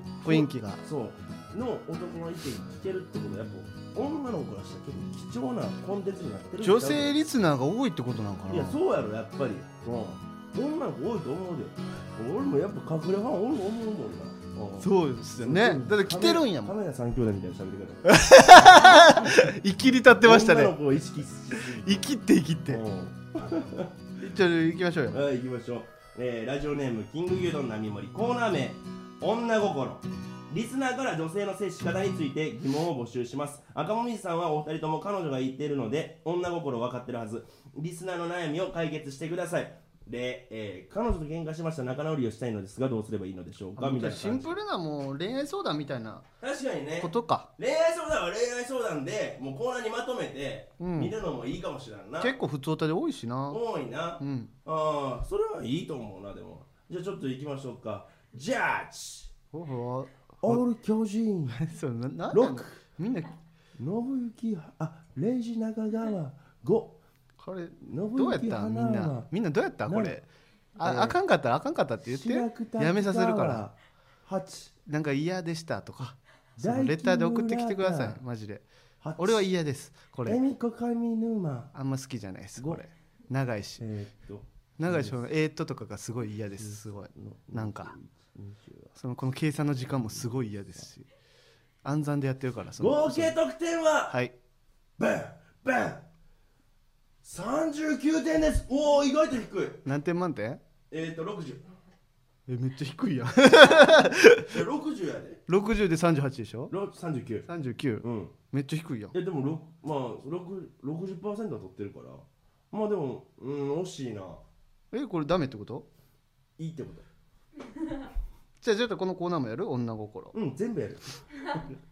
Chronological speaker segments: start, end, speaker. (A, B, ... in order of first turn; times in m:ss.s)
0:00.2-0:00.8 A
0:00.2-0:07.2 B
0:06.6-0:08.8 A
0:08.5-0:19.4 B
0:14.8-0:16.7 A
0:18.0-0:20.7 A
0:20.2-0:22.0 B
0:21.5-0:22.8 A
0:22.7-0:23.9 B
0:24.2-0:25.2 A
0:25.1-0:44.6 B
0:43.8-0:46.2 A
0:46.4-0:52.4 B
0:47.0-0:47.5 A
0:50.8-0:51.1 A
0:52.2-0:53.6 A
0:53.5-0:59.3 B
0:54.2-0:54.5 A
0:59.5-1:00.6 A
1:00.4-1:01.6 B
1:01.5-1:03.3 A
1:02.3-1:02.8 B
1:03.8-1:07.0 B
1:07.4-1:10.2 A
1:07.8-1:09.3 B
1:09.8-1:10.2 B
1:10.8-1:13.6 A
1:10.8-1:11.2 B
1:12.0-1:14.7 B
1:14.8-1:18.6 A
1:16.6-1:18.2 B
1:19.0-1:19.5 B
1:19.2-1:20.4 A
1:20.2-1:21.7 B
1:21.7-1:23.8 A
1:23.8-1:25.2 B
1:24.8-1:27.9 A
1:26.5-1:28.9 B
1:29.0-1:31.0 A
1:31.8-1:33.3 A
1:32.8-1:34.2 B
1:35.0-1:36.0 B
1:37.2-1:39.8 B
1:39.8-1:40.6 A
1:40.9-1:41.6 B
1:42.5-1:44.5 A
1:44.5-1:45.4 B
1:45.5-1:46.7 A
1:46.7-1:47.5 B
1:47.5-1:49.1 A
1:48.0-1:48.3 B
1:49.1-1:54.4 B
1:54.9-1:55.8 A
1:56.6-1:57.0 B
1:58.6-2:00.3 A
2:00.3-2:01.6 B